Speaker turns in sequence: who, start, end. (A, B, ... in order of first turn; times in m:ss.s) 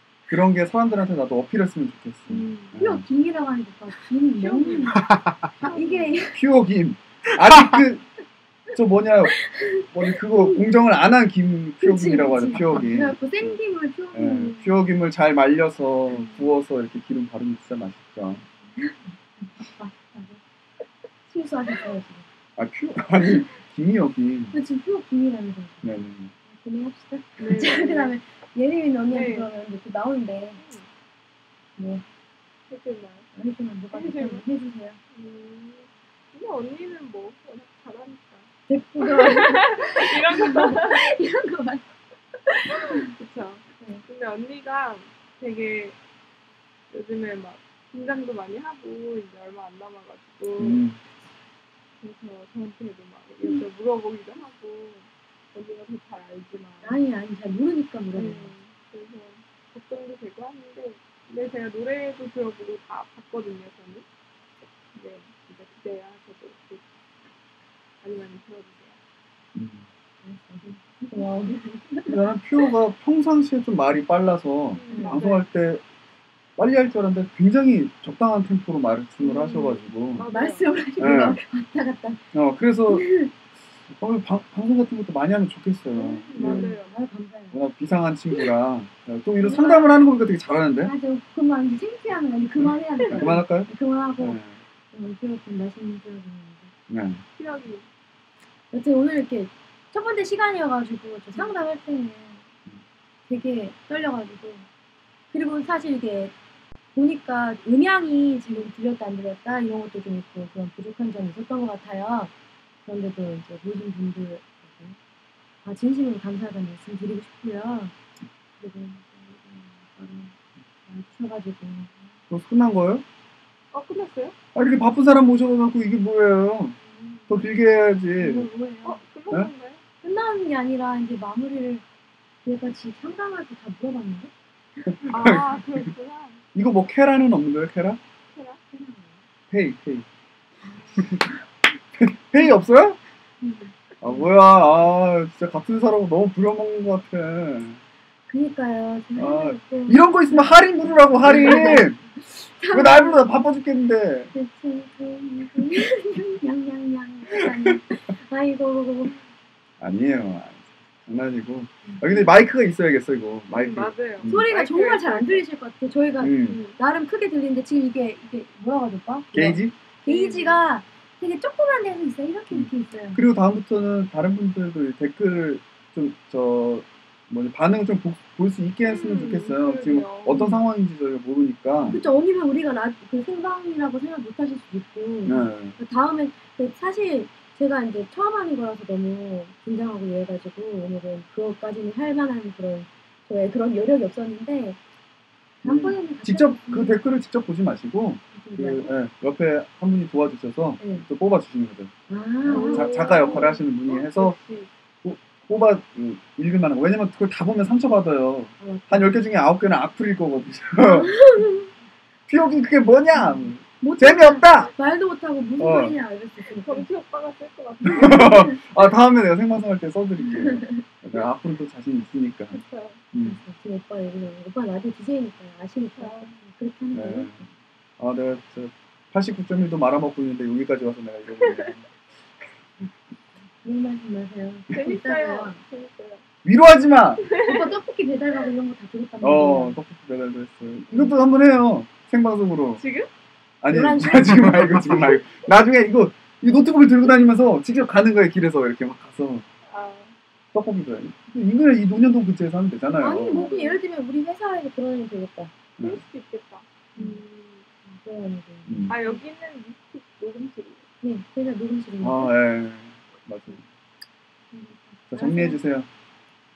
0:00.3-0:03.0 A
0:02.3-0:02.8 B
0:02.8-0:06.4 C
0:04.4-0:06.2 B
0:06.3-0:08.1 A
0:08.7-0:13.6 A
0:09.3-0:10.6 C
0:11.8-0:14.8 C
0:14.1-0:18.4 A
0:18.8-0:20.4 C
0:21.3-0:22.3 C
0:22.6-0:24.5 A
0:24.5-0:30.6 C
0:25.8-0:26.3 A
0:27.4-0:28.2 B
0:29.1-0:29.5 B
0:30.6-0:30.9 B
0:31.8-0:32.0 C
0:32.7-0:33.3 B
0:33.4-0:35.0 C
0:33.9-0:34.5 B
0:35.1-0:41.2 B
0:38.7-0:41.9 C
0:42.5-0:43.1 C
0:42.7-0:46.0 B
0:46.9-0:50.8 B
0:50.6-0:51.0 A
0:52.0-0:57.0 B
0:56.8-0:58.5 C
0:58.1-1:04.0 B
1:04.9-1:06.9 B
1:08.0-1:09.0 B
1:09.6-1:09.9 A
1:10.2-1:12.7 C
1:12.1-1:15.8 A
1:14.7-1:15.5 B
1:14.9-1:15.2 C
1:16.6-1:20.3 A
1:19.2-1:20.8 B
1:20.2-1:22.2 C
1:21.0-1:21.4 A
1:22.3-1:23.1 A
1:22.9-1:23.3 C
1:23.9-1:26.7 A
1:25.9-1:27.6 C
1:26.3-1:27.0 B
1:27.5-1:30.9 A
1:29.4-1:30.0 C
1:30.8-1:34.4 C
1:33.1-1:34.6 A
1:34.9-1:36.7 C
1:36.9-1:37.2 A
1:37.4-1:37.9 B
1:38.7-1:42.4 C
1:43.3-1:44.7 C
1:45.3-1:46.3 C
1:47.0-1:52.3 C
1:52.8-1:55.0 C
1:55.6-1:57.9 C
1:58.6-2:00.3 C
2:00.9-2:02.1 C
2:02.3-2:03.0 A
2:03.7-2:04.4 B
2:04.6-2:06.8 A
2:07.3-2:08.5 A
2:08.2-2:09.0 C
2:08.8-2:09.8 B
2:10.0-2:11.8 C
2:12.4-2:14.9 C
2:14.9-2:15.9 A
2:15.1-2:16.4 B
2:16.6-2:18.0 A
2:18.3-2:18.6 B
2:18.7-2:19.2 C
2:19.5-2:20.1 A
2:20.6-2:21.4 C
2:21.0-2:21.3 A
2:22.0-2:23.0 A
2:23.4-2:24.3 C
2:24.0-2:27.8 A
2:28.3-2:33.4 C
2:29.2-2:32.0 A
2:32.7-2:34.3 A
2:34.3-2:39.2 C
2:37.4-2:37.8 A
2:39.8-2:44.4 A
2:41.8-2:42.2 C
2:43.5-2:45.4 B
2:44.2-2:53.2 C
2:46.2-2:46.6 A
2:46.5-2:46.8 B
2:49.3-2:49.8 A
2:50.1-2:50.6 B
2:52.5-3:02.0 A
2:58.8-3:00.5 B
3:01.9-3:14.8 C
3:05.3-3:05.8 A
3:15.6-3:17.0 C
3:15.6-3:21.9 A
3:18.3-3:18.9 C
3:20.8-3:21.1 C
3:22.1-3:23.5 C
3:22.5-3:24.7 B
3:22.5-3:24.4 A
3:25.0-3:31.2 A
3:28.6-3:29.2 C
3:30.8-3:31.7 C
3:32.3-3:34.7 A
3:33.1-3:36.9 C
3:35.6-3:36.0 A
3:36.6-3:38.7 B
3:37.9-3:38.6 C
3:37.9-3:42.6 A
3:40.3-3:40.8 C
3:42.5-3:43.0 B
3:43.1-3:43.4 A
3:43.2-3:47.4 C
3:46.0-3:46.4 B
3:46.9-3:47.5 A
3:48.0-3:51.9 A
3:51.4-3:51.7 B
3:53.6-3:55.6 C
3:54.7-3:56.2 B
3:56.4-3:57.2 A
3:57.2-3:57.8 B
3:57.4-3:59.8 C
3:59.2-4:02.8 A
4:02.8-4:03.1 B
4:03.6-4:09.4 A
4:03.7-4:05.1 C
4:09.7-4:10.2 B
4:10.5-4:13.5 A
4:13.0-4:15.5 C
4:13.3-4:13.8 B
4:15.8-4:16.0 A
4:15.8-4:17.7 B
4:17.0-4:17.2 C
4:17.9-4:19.2 C
4:18.7-4:19.0 A
4:18.9-4:20.9 B
4:21.0-4:22.3 C
4:22.0-4:23.6 A
4:24.5-4:25.6 C
4:25.1-4:25.9 A